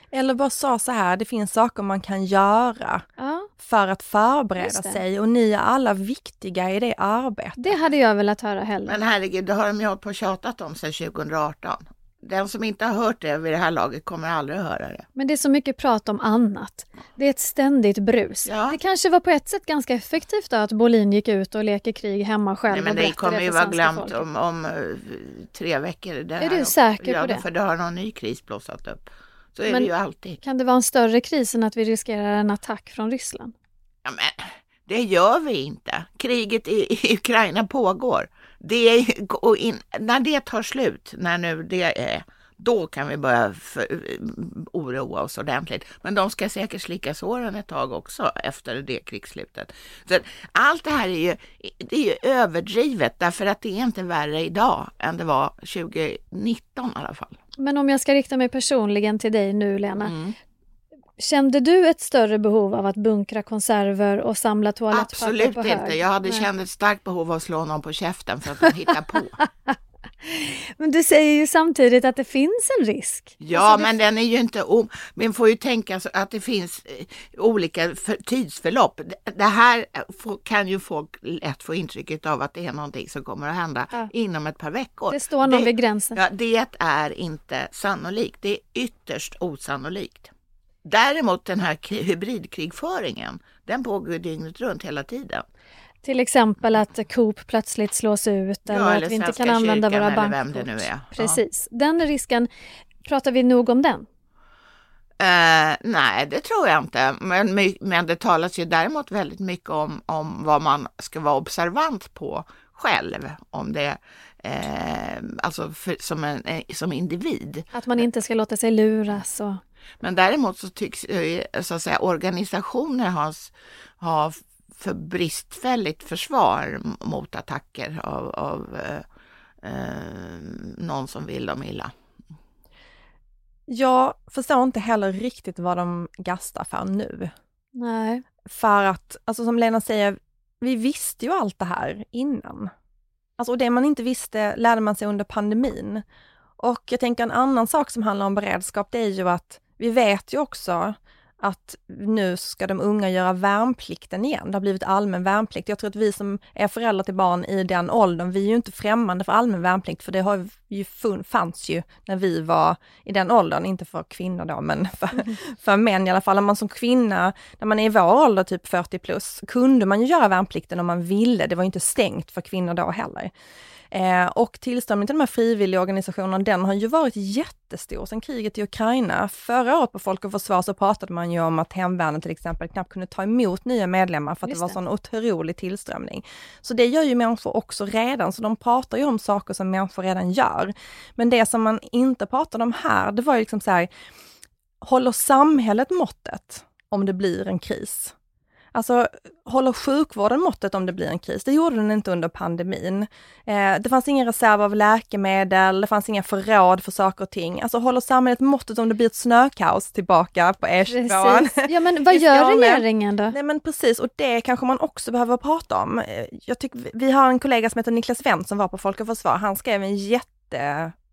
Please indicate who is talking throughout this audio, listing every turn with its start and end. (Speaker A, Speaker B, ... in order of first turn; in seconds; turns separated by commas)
Speaker A: 0.1-3.1, Speaker B: 3.2-3.5, Speaker A: 3.6-7.8, Speaker B: 4.6-5.0, Speaker B: 7.6-9.0, Speaker C: 8.9-15.1, Speaker B: 15.2-24.2, Speaker C: 18.4-18.8, Speaker C: 22.7-30.4, Speaker B: 26.4-27.4, Speaker B: 29.7-33.5, Speaker C: 34.0-57.4, Speaker B: 57.6-60.1, Speaker C: 60.0-60.3, Speaker B: 61.2-66.4, Speaker C: 64.9-69.4, Speaker B: 69.4-73.9, Speaker C: 73.4-90.3, Speaker B: 85.1-86.2, Speaker C: 90.8-95.5, Speaker B: 96.0-102.5, Speaker C: 98.7-101.4, Speaker B: 103.0-104.1, Speaker C: 105.2-117.7, Speaker B: 117.7-119.6, Speaker C: 120.0-129.0, Speaker C: 129.6-131.9, Speaker A: 133.7-137.3, Speaker B: 137.8-138.2, Speaker A: 138.5-142.7, Speaker A: 143.4-146.0, Speaker A: 146.6-173.3, Speaker A: 173.9-193.9, Speaker B: 184.4-184.8, Speaker A: 194.8-198.1, Speaker A: 198.7-220.9, Speaker B: 210.9-213.3